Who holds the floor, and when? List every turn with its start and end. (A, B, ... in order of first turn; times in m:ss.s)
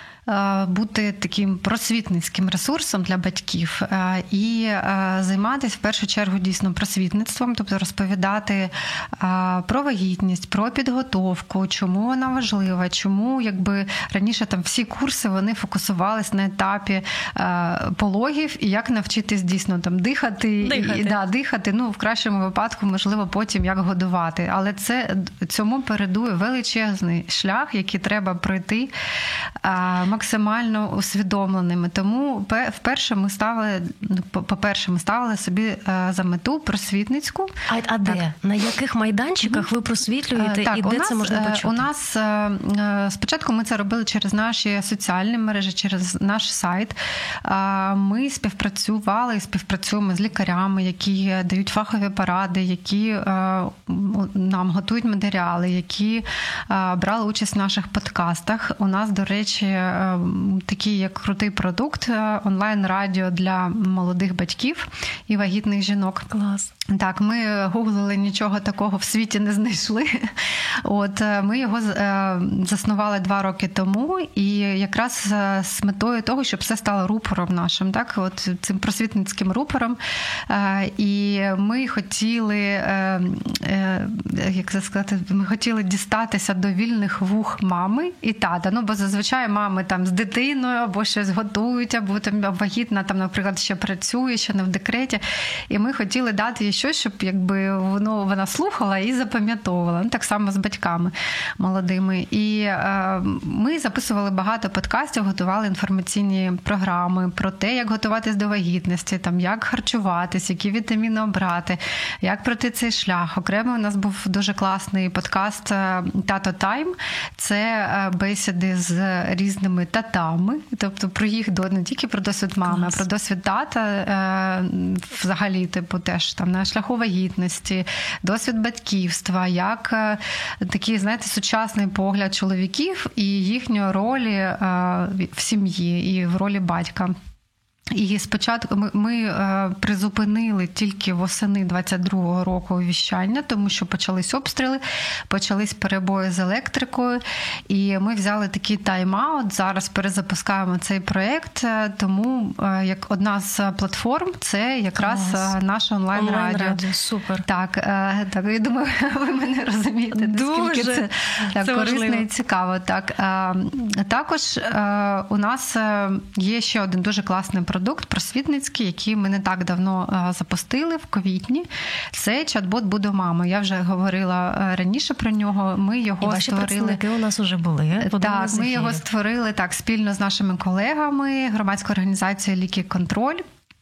0:00.2-0:28.9 A
0:20.6-0:21.2 B
0:29.6-0:37.5 A
0:37.7-0:41.9 B
0:40.4-2:17.1 A
1:06.3-1:06.7 B
2:02.6-2:03.0 B
2:17.9-2:36.8 A
2:35.0-2:35.5 B
2:36.1-2:37.4 B
2:37.4-2:57.0 A
2:40.1-2:42.2 B
2:56.2-2:59.0 B
2:58.0-3:03.4 A